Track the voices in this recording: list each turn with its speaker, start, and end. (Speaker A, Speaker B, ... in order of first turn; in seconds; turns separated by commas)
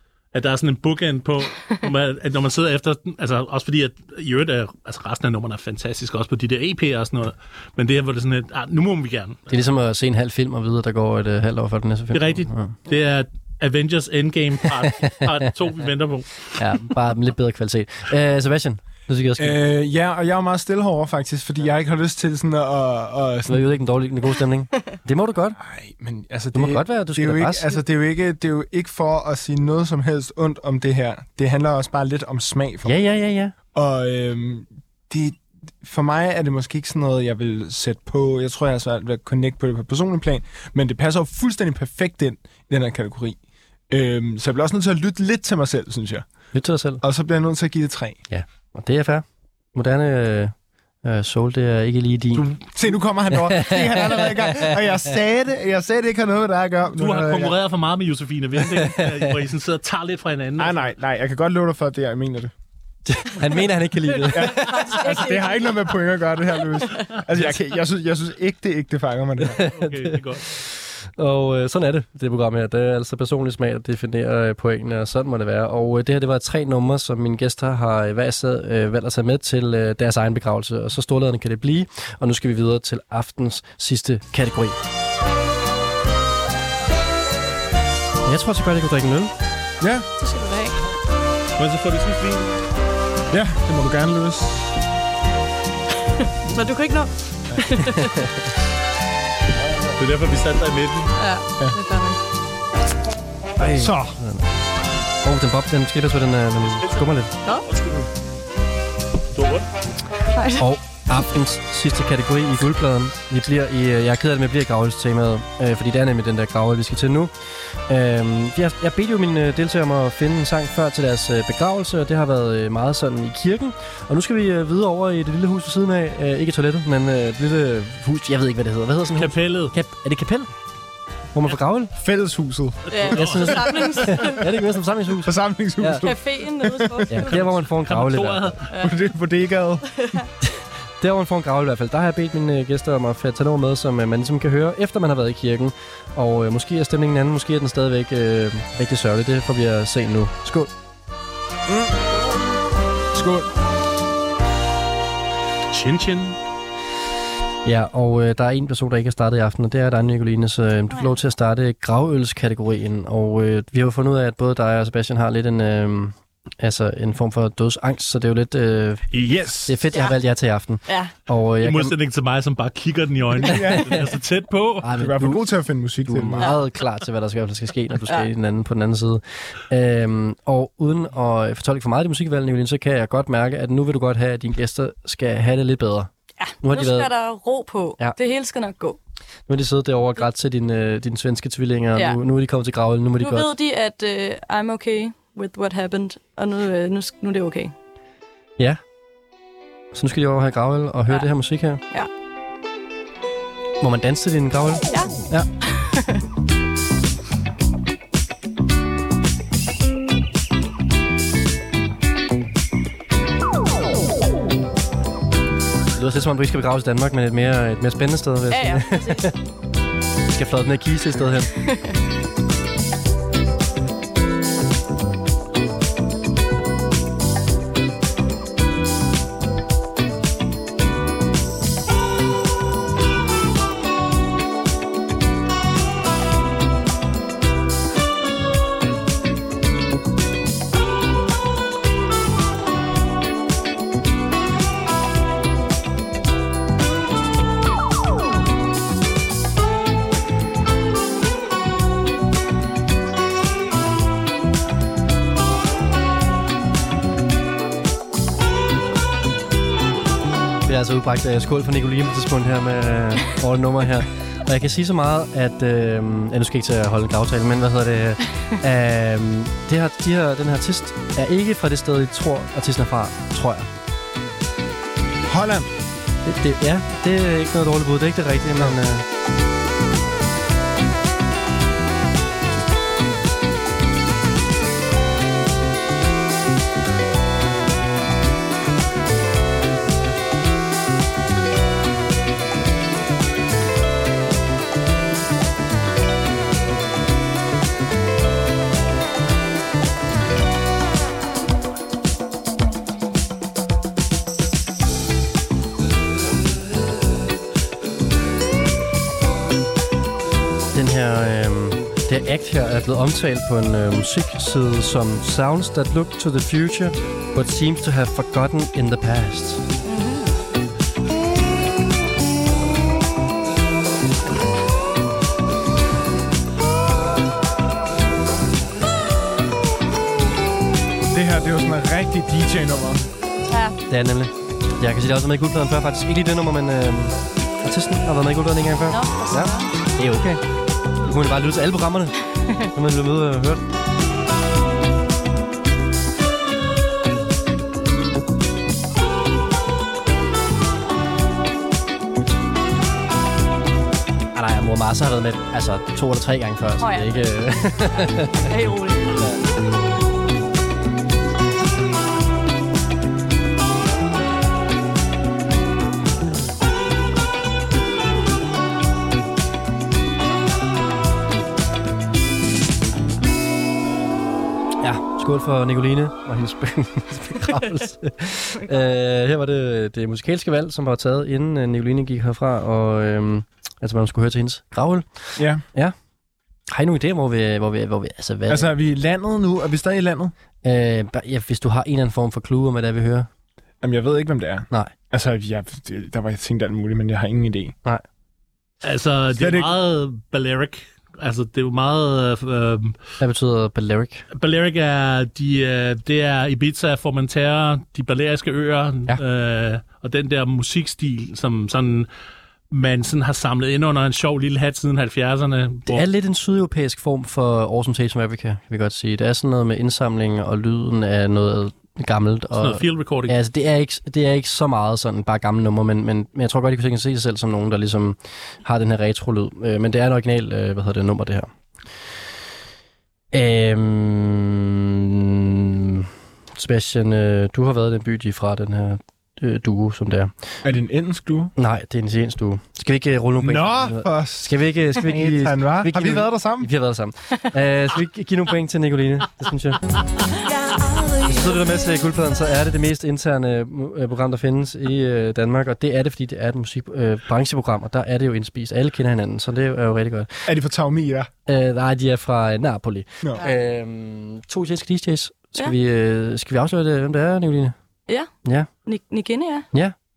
Speaker A: 0.3-9.4, Speaker B: 9.5-12.7, Speaker A: 12.1-16.9, Speaker B: 15.2-15.5, Speaker B: 16.6-19.6, Speaker C: 19.4-23.7, Speaker B: 23.5-25.6, Speaker C: 25.6-33.0, Speaker B: 26.5-27.8, Speaker B: 32.8-33.5, Speaker C: 33.7-46.3, Speaker B: 46.5-47.0, Speaker C: 47.0-48.2, Speaker B: 48.3-52.5, Speaker C: 52.3-57.5, Speaker B: 53.4-55.0, Speaker A: 56.9-60.9, Speaker B: 58.8-59.3, Speaker C: 60.6-62.5, Speaker B: 63.0-64.9, Speaker C: 64.3-69.6, Speaker D: 64.4-65.9, Speaker A: 67.3-67.6, Speaker B: 69.4-84.8, Speaker A: 69.6-70.5, Speaker B: 88.2-89.3, Speaker C: 89.8-90.1, Speaker D: 90.2-90.8, Speaker A: 91.6-92.5, Speaker C: 93.3-94.8, Speaker D: 96.5-98.2, Speaker A: 99.9-101.1, Speaker D: 101.2-102.2, Speaker B: 103.6-104.5, Speaker C: 103.6-104.1, Speaker B: 105.2-107.3, Speaker A: 107.6-108.0, Speaker A: 109.3-109.7, Speaker D: 110.3-110.7, Speaker B: 110.6-130.5, Speaker A: 129.2-129.7, Speaker B: 131.3-131.9, Speaker C: 131.9-134.1, Speaker A: 132.9-134.1, Speaker D: 132.9-134.4, Speaker B: 133.2-136.0, Speaker C: 135.2-137.2, Speaker D: 136.0-137.3, Speaker B: 137.1-138.6, Speaker A: 137.3-138.7, Speaker C: 138.8-140.2, Speaker B: 140.5-150.7, Speaker C: 153.1-153.5, Speaker A: 155.7-156.4, Speaker B: 157.6-172.0, Speaker C: 169.1-169.8, Speaker D: 170.8-171.1, Speaker A: 171.6-174.9, Speaker C: 173.3-174.1, Speaker B: 173.5-173.8, Speaker B: 174.8-186.1, Speaker C: 174.9-176.5, Speaker D: 186.4-189.0, Speaker B: 186.6-187.1, Speaker B: 189.5-193.5, Speaker D: 193.2-197.7, Speaker B: 199.9-201.8, Speaker B: 203.8-205.5, Speaker D: 204.9-206.2, Speaker B: 215.9-219.4, Speaker D: 218.5-219.2, Speaker B: 220.3-221.5, Speaker D: 221.6-221.9, Speaker B: 260.6-273.7, Speaker C: 275.3-275.7, Speaker B: 276.2-279.0, Speaker B: 310.7-319.6, Speaker D: 319.8-320.3, Speaker C: 331.1-333.0, Speaker D: 333.5-333.8, Speaker B: 333.9-340.4, Speaker D: 338.9-339.7, Speaker B: 341.0-343.6, Speaker B: 354.3-358.4, Speaker D: 356.8-357.3, Speaker D: 357.9-359.4, Speaker B: 374.8-385.9, Speaker C: 385.4-385.6, Speaker B: 386.7-388.7, Speaker C: 388.5-390.3, Speaker B: 390.6-393.3, Speaker C: 393.8-397.8, Speaker A: 398.8-403.0, Speaker C: 399.3-399.7, Speaker B: 403.2-404.2, Speaker A: 404.3-412.1, Speaker A: 412.7-416.0, Speaker B: 415.9-432.2, Speaker A: 422.6-423.4, Speaker B: 433.3-440.6, Speaker C: 440.6-441.5, Speaker B: 441.6-449.9, Speaker C: 443.4-446.7, Speaker B: 451.2-460.5, Speaker C: 460.4-461.3, Speaker B: 461.4-467.8, Speaker B: 468.4-468.7, Speaker D: 468.8-469.7